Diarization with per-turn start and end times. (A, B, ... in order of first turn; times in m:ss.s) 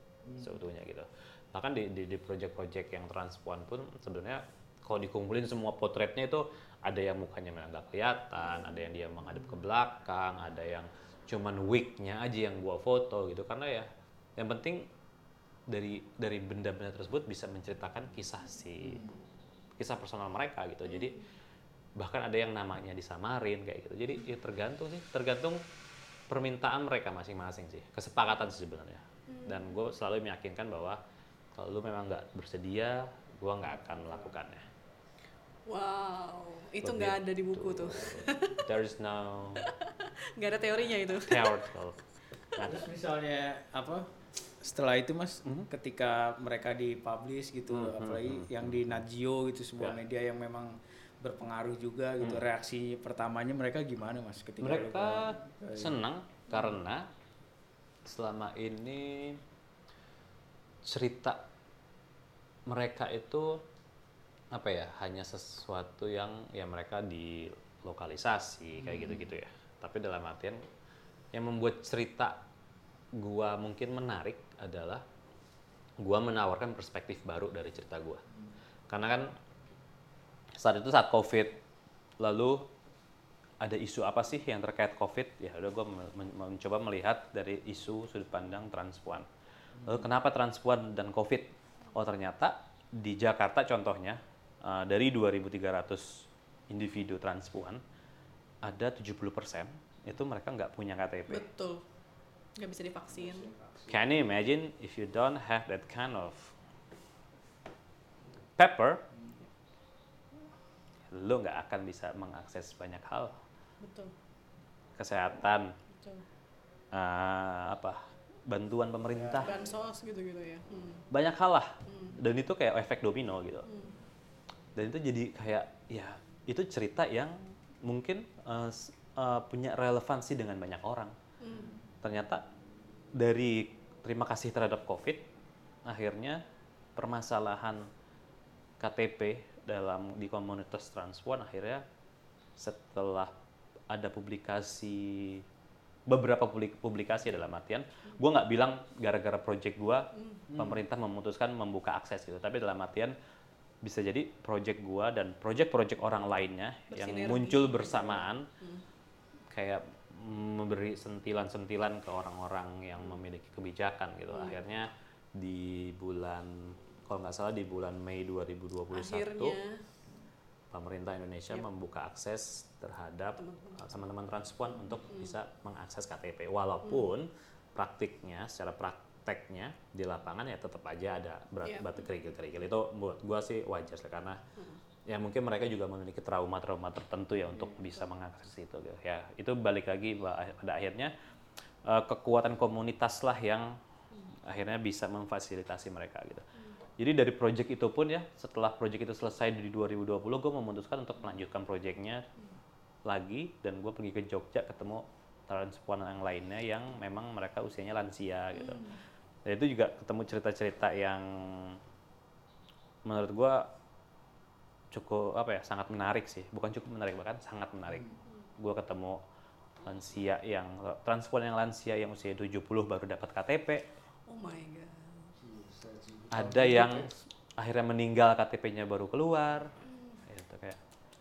0:00.2-0:00.6 A
0:00.4-0:14.9 B
0:15.7-0:19.1 B
0:18.8-0:19.2 A
0:19.8-0:21.2 B
0:20.9-0:21.2 C
0:22.0-0:25.6 B
0:26.3-0:31.0 B
0:29.3-0:29.8 C
0:31.6-0:34.7 B
0:35.7-0:38.6 C
0:36.8-0:39.6 B
0:39.6-0:41.5 C
0:41.2-0:42.0 B
0:42.6-0:44.1 A
0:44.6-0:56.0 A
0:47.7-0:49.0 B
0:52.2-0:52.4 B
0:54.6-0:57.1 B
0:58.0-0:59.4 B
1:00.8-1:01.5 B
1:02.7-1:03.6 B
1:04.5-1:10.6 B
1:08.8-1:09.2 A
1:11.3-1:12.4 B
1:13.2-1:15.0 B
1:16.0-1:18.2 B
1:18.9-1:19.4 B
1:20.6-1:21.6 B
1:22.2-1:22.7 B
1:23.6-1:29.3 B
1:29.8-1:30.0 A
1:29.8-1:37.8 B
1:38.6-1:41.4 B
1:41.3-1:41.8 C
1:42.6-1:43.5 C
1:43.1-1:44.0 A
1:43.9-1:46.5 B
1:48.6-1:49.0 B
1:51.1-1:53.4 B
1:53.8-1:54.1 C
1:55.0-1:55.7 B
1:56.0-1:56.2 C
1:56.9-1:59.6 B
1:59.2-1:59.6 A
1:59.4-2:01.0 C
2:01.1-2:03.7 B
2:01.9-2:02.2 C
2:03.7-2:03.9 C
2:04.8-2:11.1 B
2:11.4-2:11.7 C
2:12.0-2:12.4 B
2:13.2-2:15.3 B
2:15.9-2:16.4 B
2:17.0-2:17.9 B
2:18.8-2:21.8 B
2:22.6-2:23.3 B
2:23.9-2:25.4 B
2:26.1-2:33.2 B
2:30.2-2:30.4 C
2:30.5-2:30.8 A
2:33.8-2:38.5 B
2:36.9-2:38.8 C
2:39.5-2:49.6 B
2:44.3-2:44.6 C
2:48.9-2:49.8 C
2:50.7-3:04.4 B
2:53.4-2:53.8 C
2:56.8-2:57.1 C
3:01.6-3:02.1 C
3:05.1-3:11.1 B
3:11.8-3:13.8 B
3:14.5-3:16.5 B
3:17.0-3:22.3 B
3:23.1-3:28.8 B
3:28.6-3:29.0 C
3:29.5-3:31.8 B
3:33.0-3:33.7 B
3:34.9-3:38.1 B
3:37.9-3:38.1 A
3:38.6-3:39.2 B
3:39.8-3:43.9 B
3:44.3-3:45.3 C
3:45.4-3:47.1 A
3:46.3-3:49.7 B
3:49.9-3:50.2 C
3:50.3-3:50.8 B